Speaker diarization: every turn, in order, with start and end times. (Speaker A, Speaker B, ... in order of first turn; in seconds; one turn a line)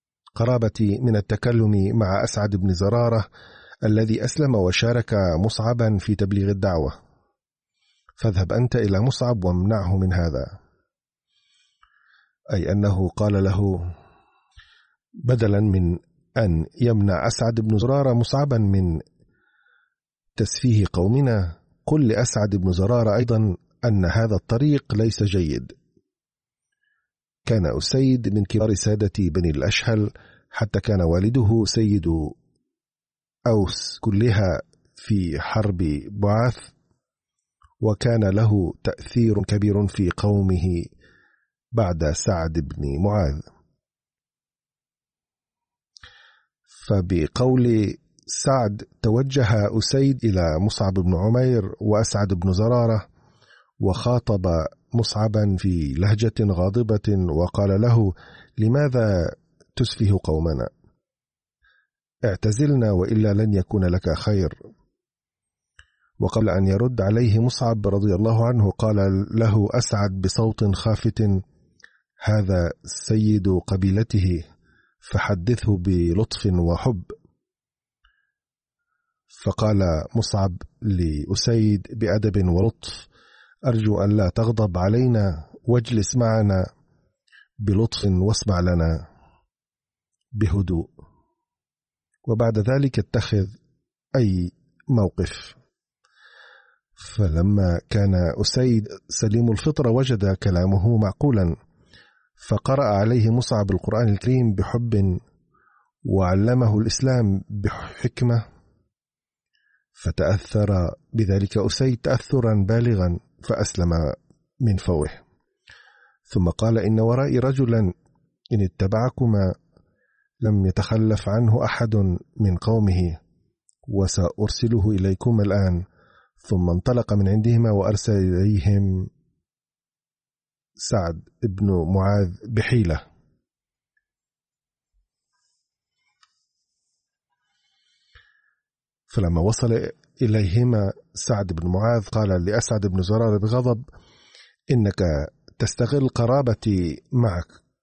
Speaker A: 0.4-3.2
Speaker A: 3.9-6.9
Speaker A: 8.2-10.5
Speaker A: 12.5-13.8
Speaker A: 15.3-19.0
Speaker A: 20.4-25.8
Speaker A: 27.5-32.4
Speaker A: 33.5-36.7
Speaker A: 37.8-40.9
Speaker A: 41.8-43.4
Speaker A: 46.9-53.0
Speaker A: 53.8-60.7
Speaker A: 62.3-64.6
Speaker A: 66.2-71.4
Speaker A: 72.2-74.4
Speaker A: 75.0-77.1
Speaker A: 79.4-83.1
Speaker A: 83.7-86.6
Speaker A: 87.6-89.0
Speaker A: 90.4-90.9
Speaker A: 92.3-93.5
Speaker A: 94.2-95.6
Speaker A: 97.0-101.5
Speaker A: 102.4-105.1
Speaker A: 106.1-108.4
Speaker A: 110.0-114.1
Speaker A: 114.7-115.2
Speaker A: 116.3-117.9
Speaker A: 118.5-119.5
Speaker A: 120.4-123.2
Speaker A: 123.9-125.8
Speaker A: 126.5-129.1
Speaker A: 130.9-133.0
Speaker A: 139.1-143.9
Speaker A: 144.7-147.5